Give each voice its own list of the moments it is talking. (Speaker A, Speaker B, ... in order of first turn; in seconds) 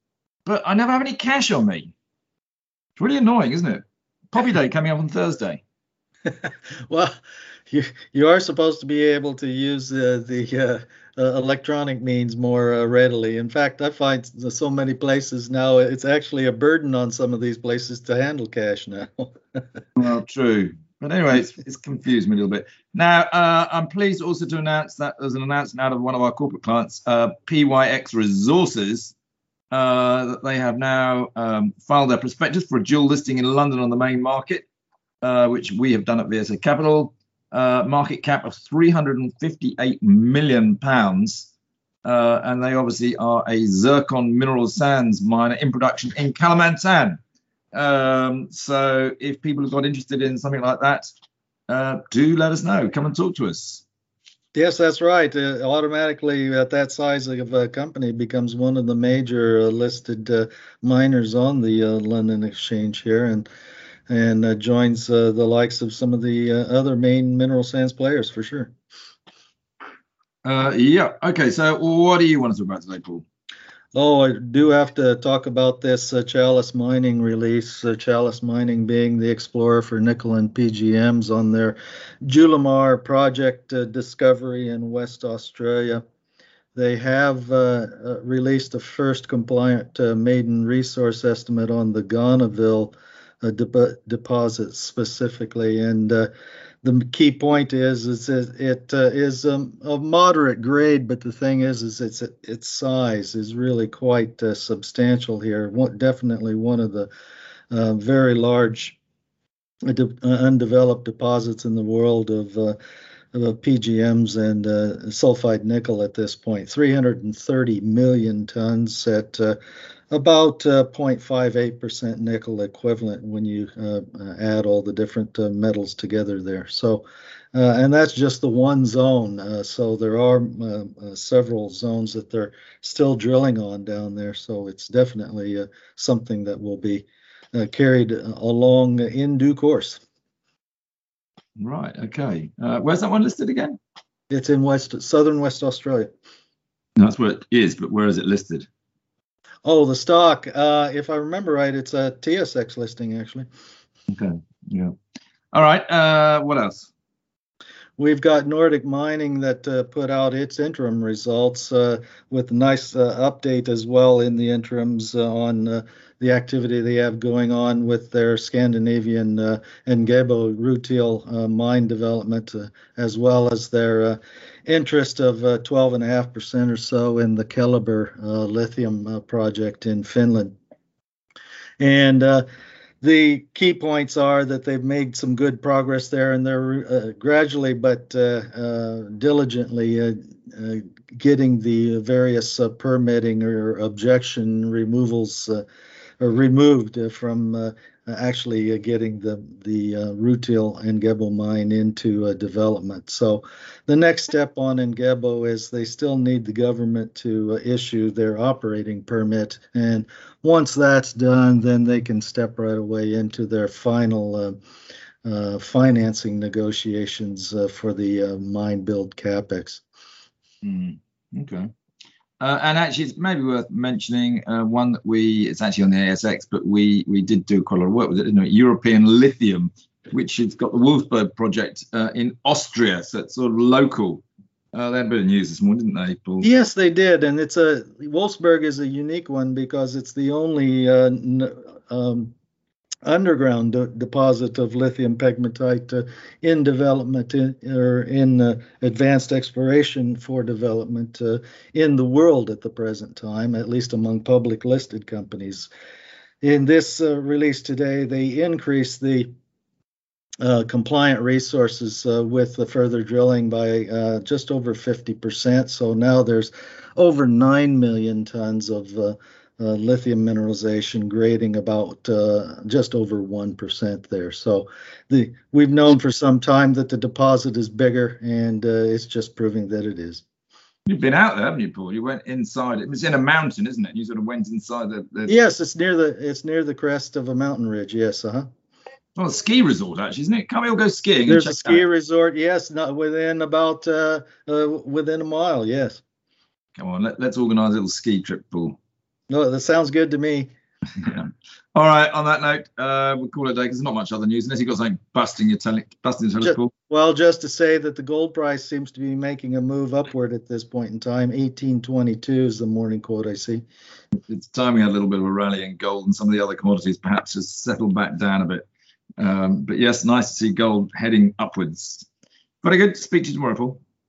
Speaker A: 0.5-1.9, 3.0-5.6, 20.0-29.1, 29.7-34.7, 35.2-41.5, 42.0-47.2, 47.7-51.1, 51.7-53.8, 70.5-73.2, 141.6-143.8, 147.0-148.7, 154.1-154.9, 155.5-156.9, 220.6-221.7, 222.4-236.5, 280.9-285.3, 289.2-291.8, 296.8-298.8, 301.0-306.7, 314.3-318.7, 319.2-322.1, 322.6-323.8
Speaker B: 6.3-7.1, 7.7-19.6, 54.5-63.5, 64.1-68.7, 73.9-86.0, 86.7-96.3, 96.8-107.1, 107.7-109.0, 109.8-112.8, 113.3-119.6, 120.1-140.0, 144.3-146.1, 149.6-153.5, 158.0-180.6, 181.8-182.4, 183.0-195.6, 196.2-214.6, 215.2-219.8, 236.4-242.3, 243.1-255.7, 256.4-259.3, 260.4-280.2, 285.3-288.5, 291.3-296.0, 299.3-300.5, 306.4-313.6